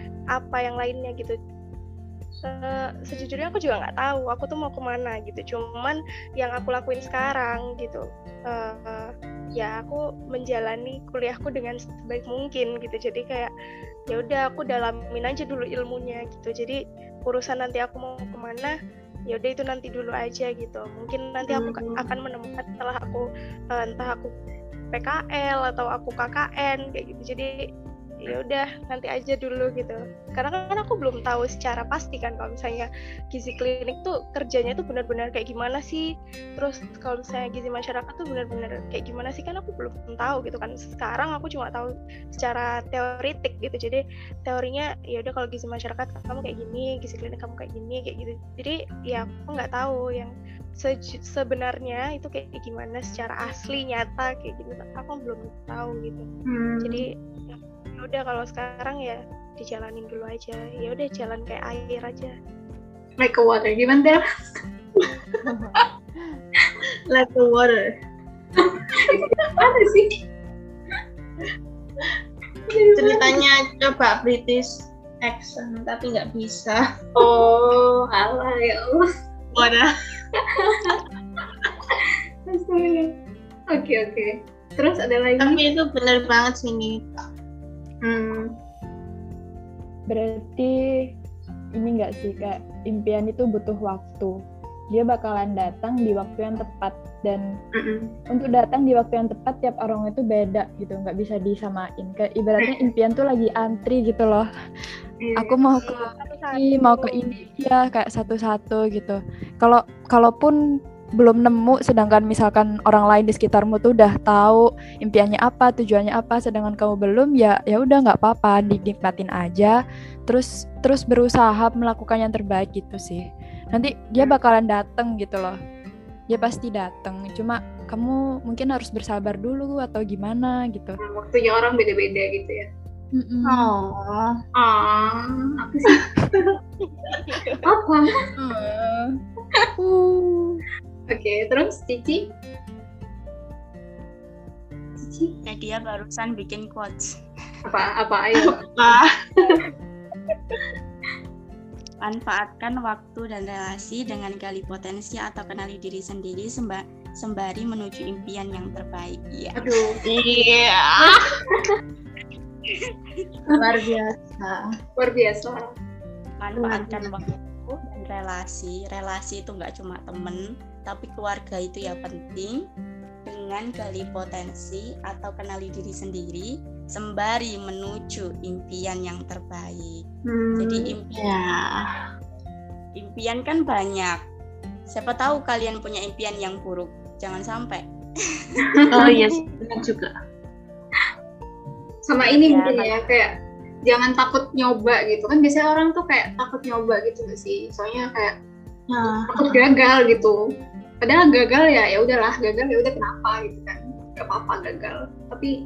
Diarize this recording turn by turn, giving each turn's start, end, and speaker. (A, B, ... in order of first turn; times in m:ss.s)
0:00.3-0:01.4 A
0:02.4-0:13.5 A
0:14.1-0:18.7 A
0:19.3-0:23.2 A
0:21.5-0:22.0 B
0:23.8-0:24.3 A
0:24.9-0:27.6 A
0:28.2-0:56.3 A
0:56.5-0:57.0 C
0:56.8-1:02.3 A
1:03.2-1:04.2 C
1:05.4-1:06.4 D
1:07.1-1:07.9 B
1:08.9-1:10.1 C
1:12.7-1:13.4 C
1:13.0-1:16.8 B
1:17.2-1:19.0 C
1:19.5-1:19.9 B
1:20.6-1:21.0 C
1:21.9-1:23.2 C
1:23.7-1:25.6 C
1:25.4-1:27.1 B
1:28.0-1:28.5 C
1:30.1-1:30.7 D
1:31.8-1:34.3 D
1:34.9-1:37.4 D
1:37.7-1:38.1 C
1:38.3-1:44.4 D
1:42.6-1:42.8 C
1:45.2-1:45.6 C
1:45.4-1:50.6 D
1:45.8-1:47.3 A
1:51.2-1:59.7 D
2:00.3-2:05.6 D
2:06.3-2:11.0 D
2:11.0-2:12.7 C
2:13.1-2:13.7 D
2:13.5-2:13.9 B
2:14.6-2:16.0 C
2:17.3-2:17.6 A
2:17.6-2:18.2 C
2:18.4-2:19.0 D
2:19.8-2:20.6 D
2:21.1-2:22.3 C
2:25.0-2:25.4 C
2:25.4-2:27.1 E
2:27.6-2:28.6 C
2:28.4-2:29.1 B
2:32.0-2:39.6 E
2:39.6-2:40.0 C
2:40.1-2:41.2 B
2:42.7-2:43.4 E
2:43.5-2:44.7 B
2:45.0-2:45.7 C
2:46.4-2:52.6 E
2:46.6-2:47.1 B
2:53.2-3:00.0 E
3:00.3-3:01.7 B
3:00.6-3:01.2 E
3:03.0-3:04.2 E
3:04.9-3:07.8 E
3:08.4-3:08.8 E
3:08.6-3:09.1 C
3:08.9-3:10.1 B
3:12.0-3:13.3 C
3:12.4-3:13.1 E
3:13.9-3:18.3 C
3:18.9-3:19.6 B
3:19.2-3:20.4 C
3:21.0-3:25.5 C